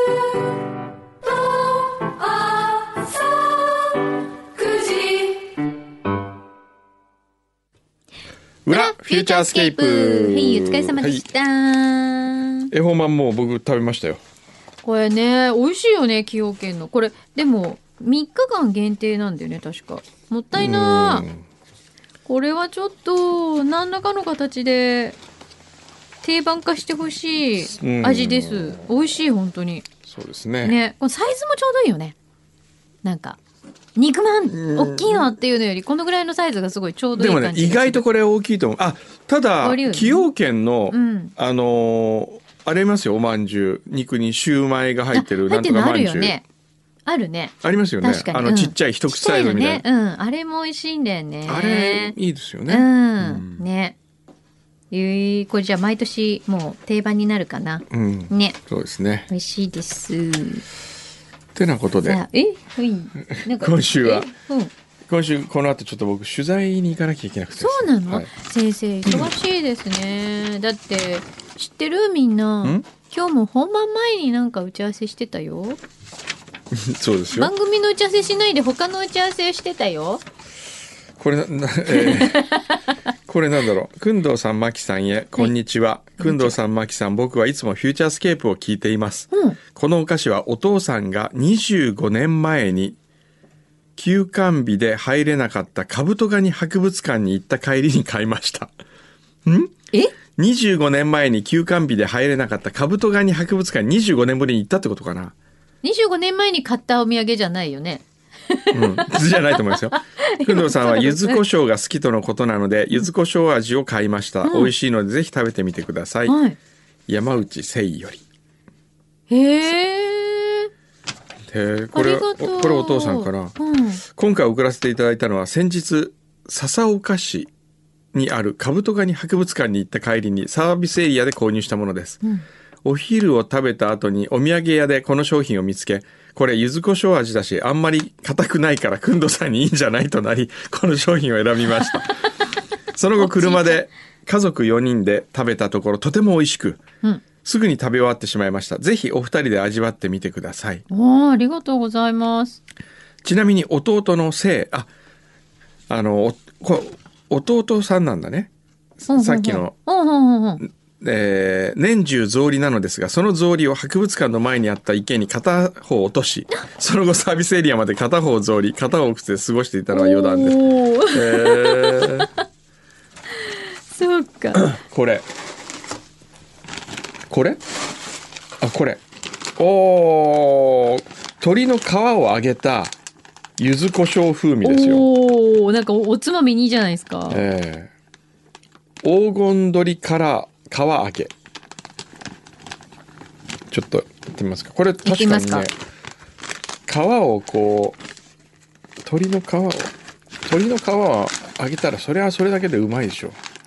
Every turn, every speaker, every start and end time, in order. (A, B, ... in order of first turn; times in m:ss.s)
0:01.2-0:03.9 A
0:04.5-0:05.5 A
0:08.6-0:11.3 B
0:08.7-0:12.7 A
0:12.7-0:14.2 B
0:14.8-0:21.3 A
0:20.5-0:21.4 B
0:22.2-0:25.2 A
0:26.2-0:29.8 A
0:27.8-0:28.8 B
0:30.1-0:30.8 B
0:30.6-0:32.2 A
0:33.0-0:33.4 A
0:34.0-0:38.0 A
0:34.5-0:35.3 B
0:37.1-0:46.4 B
0:39.6-0:40.3 A
0:40.9-0:41.3 A
0:45.1-0:46.4 A
0:47.0-0:52.2 A
0:47.6-0:49.8 B
0:51.5-0:53.6 B
0:52.7-0:54.0 A
0:54.9-0:58.6 A
0:57.9-0:59.3 B
0:59.3-1:00.6 A
1:01.5-1:02.2 B
1:02.0-1:04.7 A
1:03.3-1:04.3 B
1:05.0-1:08.3 B
1:07.6-1:15.8 A
1:09.0-1:09.3 B
1:16.7-1:17.5 B
1:17.3-1:20.2 A
1:21.2-1:22.5 B
1:21.9-1:22.8 A
1:23.3-1:33.0 B
1:26.2-1:26.5 A
1:29.3-1:29.6 A
1:34.0-1:38.7 B
1:39.4-1:39.7 B
1:40.4-1:45.3 B
1:45.8-1:51.4 A
1:48.7-1:56.4 B
1:54.4-1:54.7 A
1:56.2-1:56.6 A
1:57.1-1:58.2 B
1:59.3-2:00.7 A
2:01.5-2:07.5 B
2:01.9-2:04.0 A
2:08.1-2:12.2 B
2:12.8-2:22.2 B
2:22.9-2:26.8 B
2:23.2-2:23.8 A
2:27.4-2:30.8 B
2:30.9-2:32.6 A
2:33.2-2:34.9 B
2:35.9-2:39.7 B
2:39.0-2:40.6 A
2:40.6-2:52.3 B
2:49.9-2:52.2 A
2:53.5-2:54.7 A
2:54.6-2:55.2 B
2:57.3-2:57.6 B
2:58.6-2:59.0 B
2:59.6-3:02.9 B
3:03.6-3:05.0 B
3:04.6-3:07.4 A
3:07.3-3:07.9 B
3:09.0-3:11.3 B
3:13.7-3:15.7 B
3:15.0-3:15.7 A
3:16.9-3:18.0 B
3:19.0-3:19.9 B
3:20.4-3:23.4 B